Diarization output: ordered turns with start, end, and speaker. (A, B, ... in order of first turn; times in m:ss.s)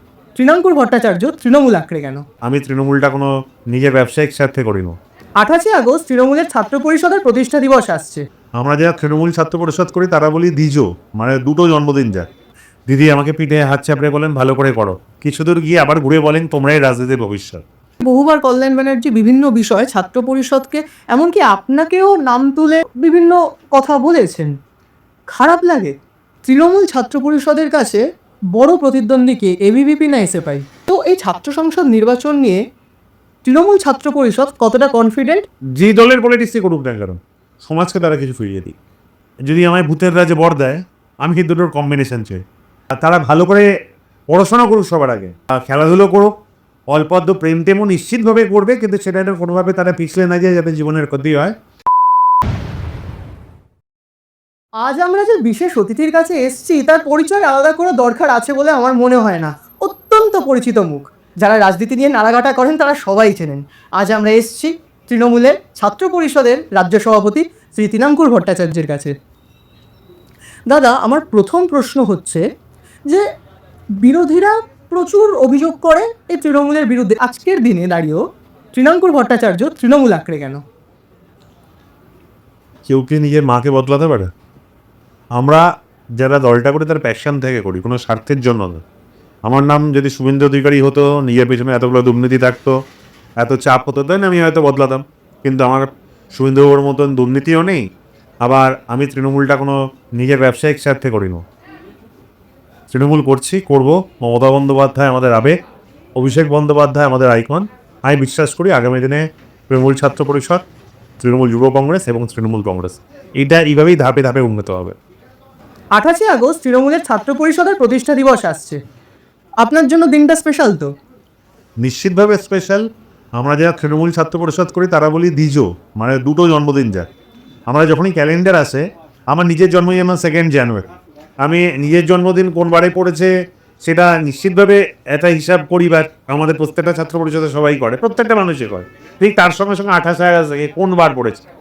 0:00.3-0:02.2 A
0:02.4-0:05.0 B
0:05.4-0:08.2 A
0:08.6-0:12.3 B
0:12.9-0:17.6 B
0:18.0-0:24.5 A
0:25.3-0:25.9 A
0:26.4-0:28.0 A
0:28.6-0:32.6 A
0:33.4-0:35.4 A
0:35.8-0:38.7 B
0:39.4-0:42.4 B
0:43.0-0:43.7 B
0:44.3-0:46.3 B
0:46.9-0:51.5 B
0:54.8-1:09.1 A
1:10.7-1:12.4 A
1:14.0-1:20.6 A
1:22.9-1:24.3 B
1:25.4-1:25.6 B
1:26.2-1:28.8 B
1:29.4-1:32.8 B
1:33.4-1:37.8 B
1:38.4-1:41.4 B
1:42.9-1:45.6 B
1:46.2-1:50.6 B
1:51.2-1:55.0 B
1:55.9-1:58.8 A
1:59.6-2:00.9 A
2:01.8-2:02.8 B
2:03.4-2:07.1 B
2:07.7-2:10.9 B
2:11.4-2:21.4 B